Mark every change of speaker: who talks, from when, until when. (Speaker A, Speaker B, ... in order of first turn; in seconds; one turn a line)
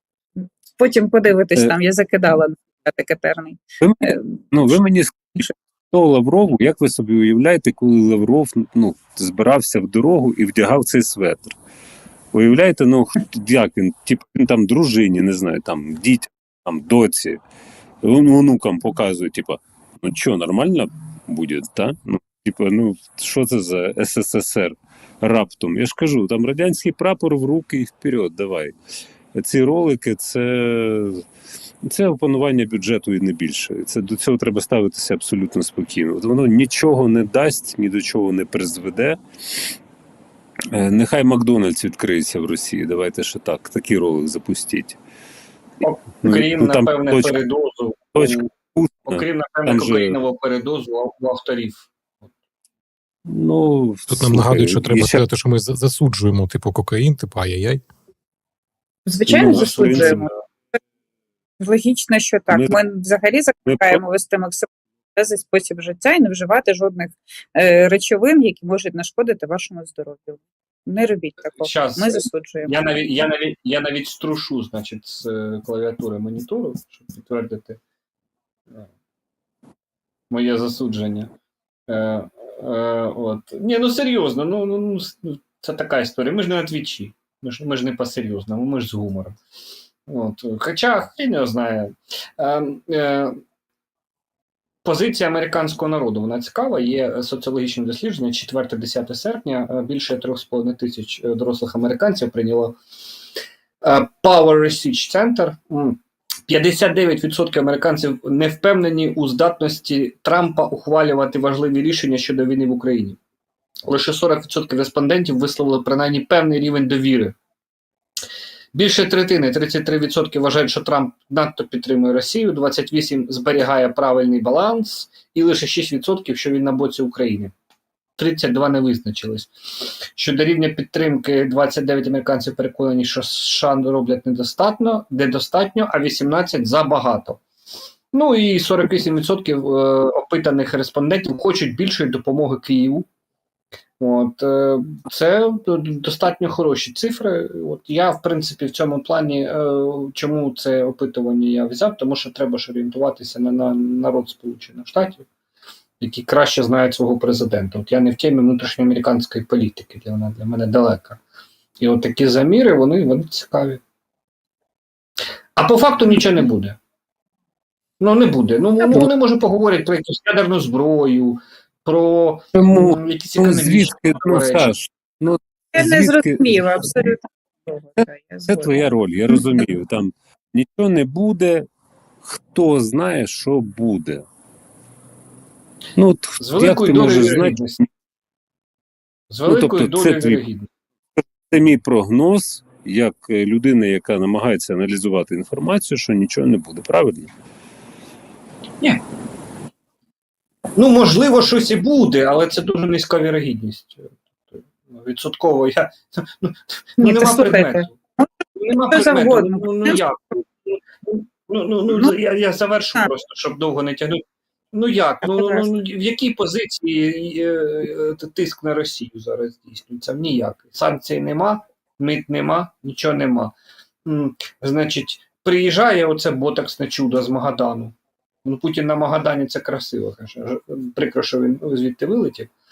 Speaker A: 0.4-4.3
Speaker B: 3.8-11.6
Speaker B: 12.3-17.4
Speaker B: 18.0-28.7
Speaker B: 29.3-31.2
Speaker B: 31.8-39.2
Speaker B: 40.7-45.0
Speaker C: 45.8-48.5
Speaker B: 46.2-47.4
Speaker B: 48.1-50.2
Speaker C: 49.1-52.3
Speaker B: 53.2-55.2
Speaker D: 54.1-57.8
Speaker A: 59.1-60.3
Speaker B: 59.3-60.2
Speaker C: 59.3-60.3
Speaker A: 61.6-72.7
Speaker B: 62.5-62.8
Speaker B: 63.6-64.0
Speaker C: 71.5-77.8
Speaker C: 80.3-81.3
Speaker C: 81.9-89.4
Speaker C: 90.1-93.4
Speaker C: 94.8-102.8
Speaker C: 103.8-113.2
Speaker C: 113.8-117.3
Speaker C: 118.7-127.5
Speaker C: 128.2-137.4
Speaker C: 138.1-143.1
Speaker C: 144.0-155.2
Speaker C: 156.0-161.2
Speaker C: 161.8-163.8
Speaker C: 165.6-166.8
Speaker C: 168.0-174.7
Speaker B: 172.5-177.0
Speaker A: 175.7-178.9
Speaker B: 178.5-181.7
Speaker B: 182.2-184.2
Speaker B: 185.9-187.8
Speaker C: 186.4-187.8
Speaker C: 189.3-190.7
Speaker B: 189.5-190.4
Speaker B: 191.2-197.3
Speaker C: 200.8-207.9
Speaker A: 207.0-208.3
Speaker C: 208.6-223.5
Speaker A: 208.9-210.0
Speaker A: 215.2-215.7
Speaker C: 224.0-232.5